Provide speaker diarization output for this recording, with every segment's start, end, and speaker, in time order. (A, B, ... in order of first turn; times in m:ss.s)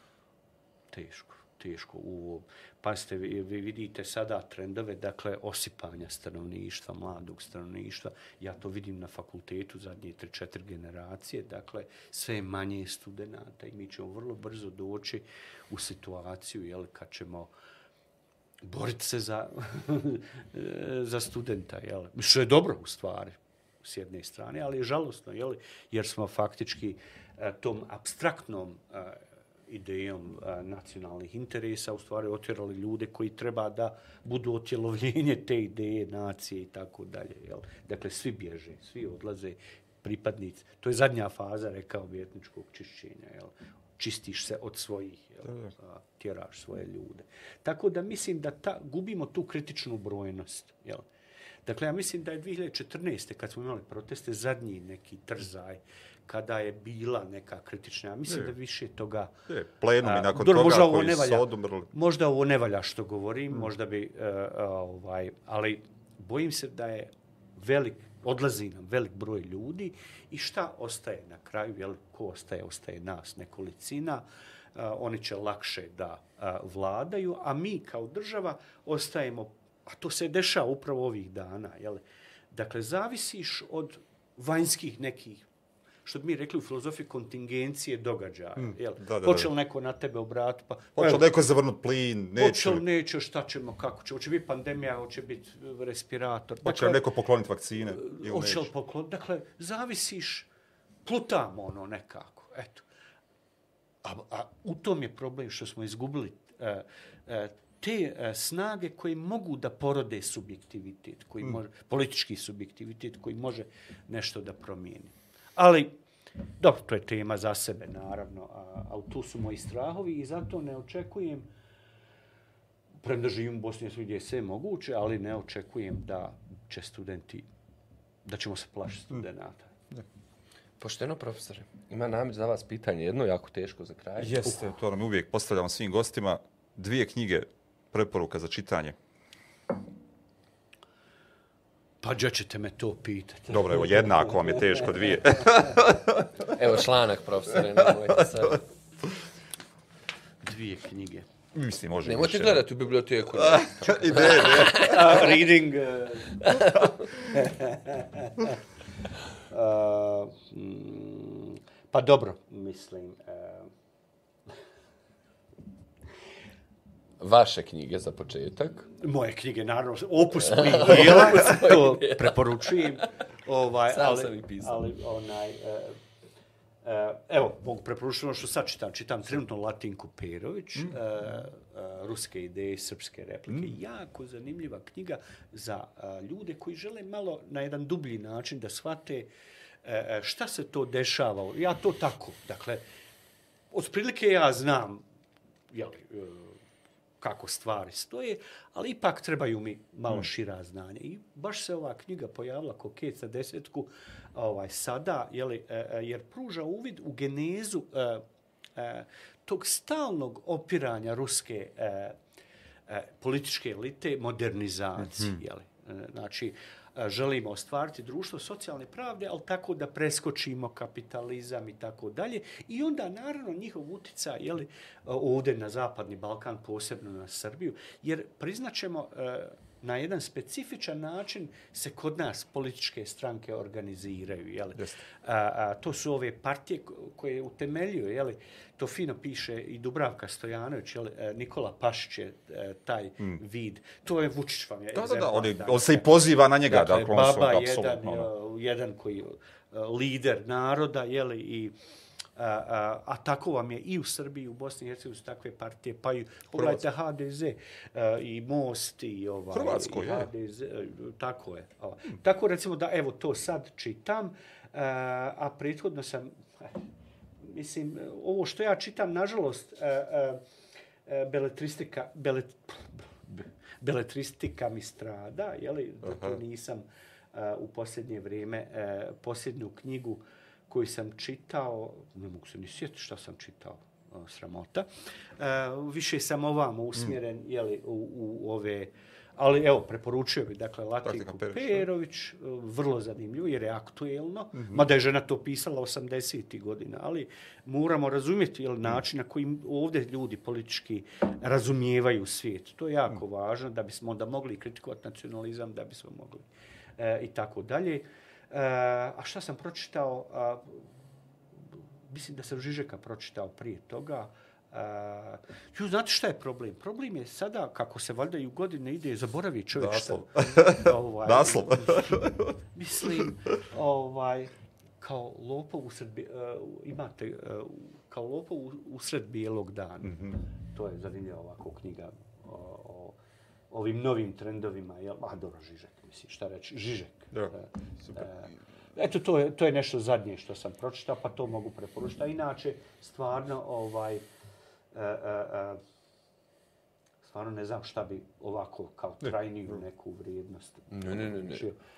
0:00.9-0:17.5 A
0:18.6-0:51.0 A
0:51.6-0:59.4 A
0:59.5-1:01.9 B
1:00.0-1:14.2 A
1:14.7-1:25.5 A
1:26.0-1:31.3 A
1:28.6-1:29.5 B
1:31.0-1:32.8 B
1:32.4-1:37.0 A
1:36.6-1:38.7 B
1:37.9-1:40.5 A
1:41.0-1:42.9 A
1:44.0-1:56.0 A
1:56.6-2:01.5 A
2:03.0-2:07.5 A
2:08.2-2:09.7 A
2:10.8-2:14.3 C
2:14.2-2:19.0 B
2:14.3-2:14.6 A
2:22.0-2:24.9 A
2:23.5-2:26.3 B
2:26.4-2:28.6 C
2:30.4-2:31.3 A
2:31.5-2:32.7 B
2:32.0-2:35.2 C
2:33.3-2:35.2 B
2:34.7-2:38.6 A
2:36.4-2:36.9 C
2:39.5-2:43.7 A
2:47.2-2:48.9 C
2:48.9-2:56.0 A
2:50.5-2:53.0 C
2:53.9-2:54.8 C
2:56.8-3:09.3 A
3:09.8-3:12.8 A
3:13.7-3:15.0 A
3:15.7-3:16.6 A
3:17.2-3:28.2 A
3:28.7-3:32.2 A
3:32.9-4:11.7 A
4:04.9-4:08.3 B
4:12.4-4:26.8 A
4:19.5-4:20.3 B
4:27.4-4:30.4 A
4:31.0-4:44.9 A
4:36.1-4:36.4 B
4:45.4-5:06.5 A
4:51.0-4:51.9 B
5:07.0-5:10.9 A
5:12.1-5:33.2 A
5:19.8-5:22.6 B
5:30.1-5:30.3 B
5:33.7-5:44.2 A
5:44.9-5:45.8 A
5:47.2-5:51.8 A
5:50.9-5:51.6 C